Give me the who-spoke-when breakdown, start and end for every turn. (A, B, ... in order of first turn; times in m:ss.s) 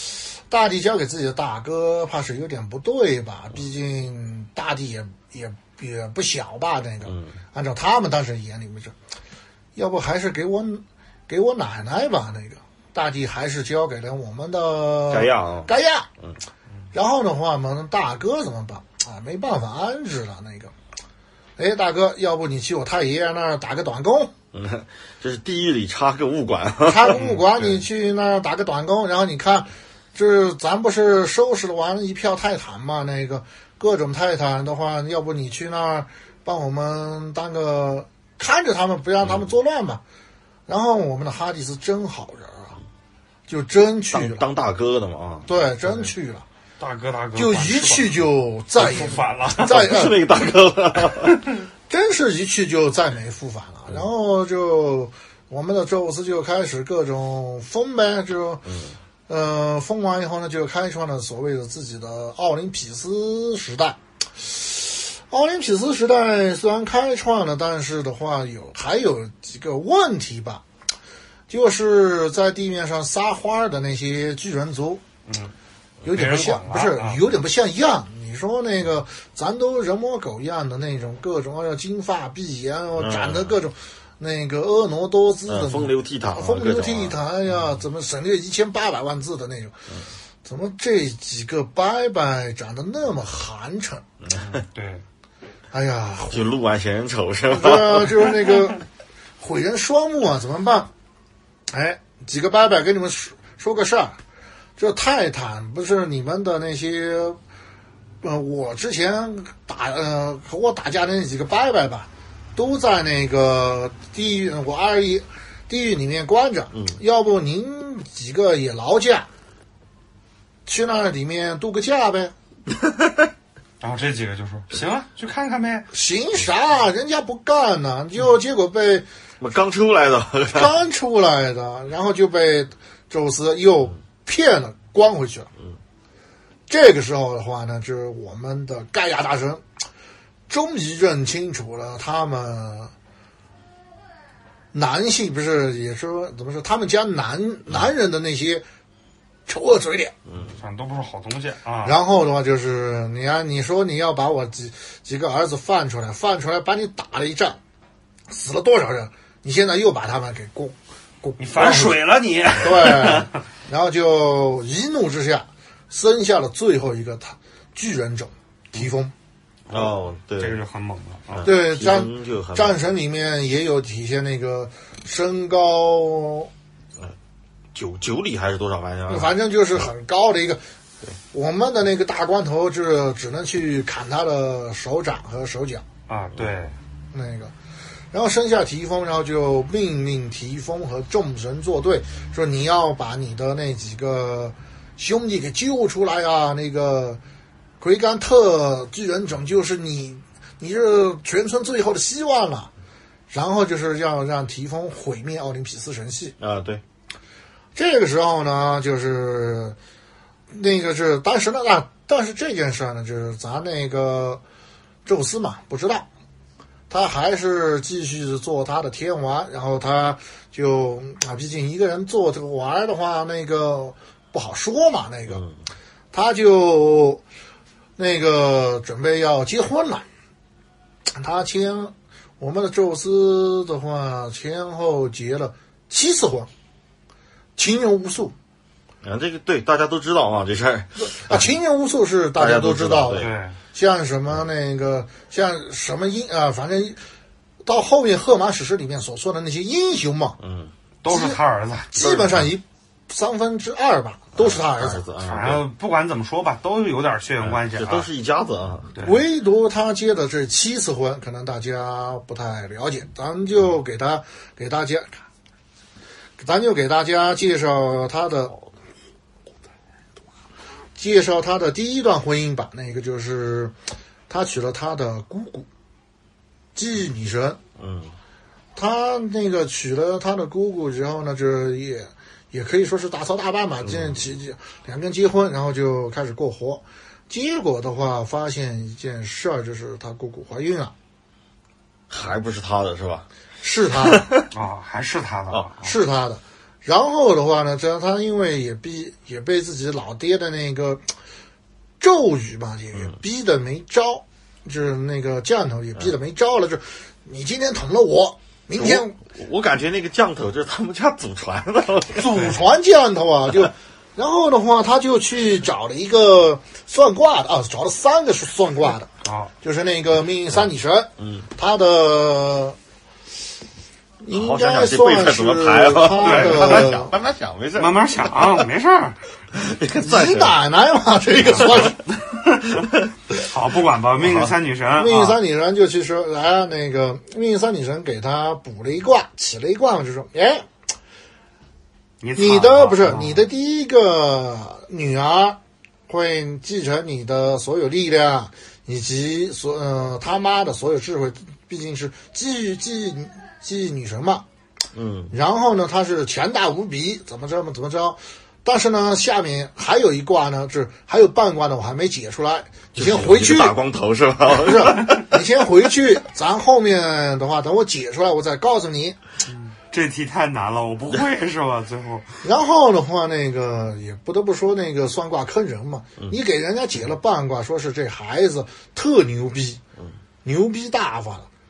0:00.5-0:08.9 A
0:09.8-0:16.1 A
0:15.1-0:15.7 B
0:16.9-0:20.7 A
0:21.6-0:24.3 A
0:24.5-0:27.2 B
0:26.8-0:40.0 A
0:27.1-0:27.8 C
0:40.7-0:42.8 A
0:43.5-0:44.4 A
0:44.1-0:45.5 B
0:45.4-0:46.4 A
0:46.8-0:49.9 C
0:47.3-0:50.2 A
0:49.6-0:51.4 B
0:51.9-0:58.7 A
0:58.6-0:58.9 B
0:59.3-1:10.6 A
1:11.5-1:15.0 A
1:15.3-1:15.5 C
1:16.0-1:29.8 A
1:16.1-1:17.2 C
1:23.0-1:23.5 B
1:25.5-1:27.2 B
1:30.4-1:34.0 A
1:34.2-1:34.6 B
1:34.4-1:35.0 C
1:35.7-1:36.5 A
1:36.3-1:38.3 B
1:37.5-1:38.8 A
1:39.4-1:40.9 A
1:41.7-1:44.2 A
1:44.8-1:47.4 A
1:48.2-1:59.3 A
2:00.6-2:02.3 A
2:03.8-2:05.9 C
2:05.9-2:09.0 A
2:09.4-2:10.7 B
2:10.5-2:15.5 A
2:16.7-2:19.6 A
2:20.5-2:22.9 A
2:24.7-2:28.6 A
2:29.5-2:30.1 A
2:30.3-2:30.5 B
2:30.5-2:32.0 C
2:31.8-2:37.6 A
2:38.3-2:42.0 A
2:41.4-2:43.3 C
2:42.6-2:49.1 A
2:49.7-2:51.5 C
2:49.7-2:50.6 B
2:51.3-2:52.8 B
2:51.4-2:56.5 A
2:57.7-2:59.4 B
2:59.1-3:00.6 A
3:01.3-3:05.8 A
3:06.1-3:06.8 C
3:07.1-3:07.5 A
3:08.1-3:17.2 A
3:17.8-3:22.7 A
3:23.3-3:26.4 A
3:26.4-3:26.8 B
3:27.8-3:29.8 A
3:30.5-3:34.4 A
3:35.0-3:36.1 A
3:36.9-3:45.4 A
3:46.1-3:47.2 A
3:48.0-3:50.0 A
3:51.2-3:56.5 A
3:57.6-3:58.3 A
3:59.0-4:01.5 B
4:01.0-4:07.0 A
4:02.4-4:03.3 B
4:03.2-4:03.6 C
4:07.6-4:10.4 A
4:10.4-4:10.7 B
4:11.0-4:12.0 C
4:11.1-4:11.4 A
4:11.9-4:15.0 A
4:12.0-4:12.5 B
4:14.4-4:15.6 B
4:15.2-4:18.1 C
4:17.4-4:18.9 B
4:18.9-4:19.2 C
4:19.0-4:25.2 A
4:26.4-4:28.6 A
4:31.0-4:33.7 A
4:34.3-4:35.7 A
4:36.7-4:37.6 A
4:37.8-4:38.1 B
4:38.8-4:50.9 A
4:43.8-4:44.2 B
4:52.1-4:53.2 B
4:53.6-4:54.3 A
4:54.0-4:54.5 B
4:54.5-4:55.9 C
4:55.8-5:01.0 A
5:02.0-5:09.2 A
5:08.8-5:12.5 B
5:12.1-5:19.1 A
5:19.2-5:19.5 C
5:19.6-5:22.8 A
5:21.2-5:21.4 B
5:24.2-5:27.1 A
5:24.3-5:28.6 B
5:26.2-5:27.0 C
5:27.8-5:29.2 C
5:29.5-5:30.6 B
5:30.0-5:32.0 A
5:31.5-5:35.4 C
5:32.8-5:33.1 B
5:34.2-5:34.6 B
5:35.0-5:40.6 A
5:42.2-5:43.4 C
5:42.4-5:54.4 A
5:54.9-5:55.3 B
5:55.3-6:03.7 A
6:02.9-6:05.2 B
6:04.5-6:09.2 A
6:09.5-6:12.3 C
6:12.4-6:19.8 A
6:20.4-6:21.5 A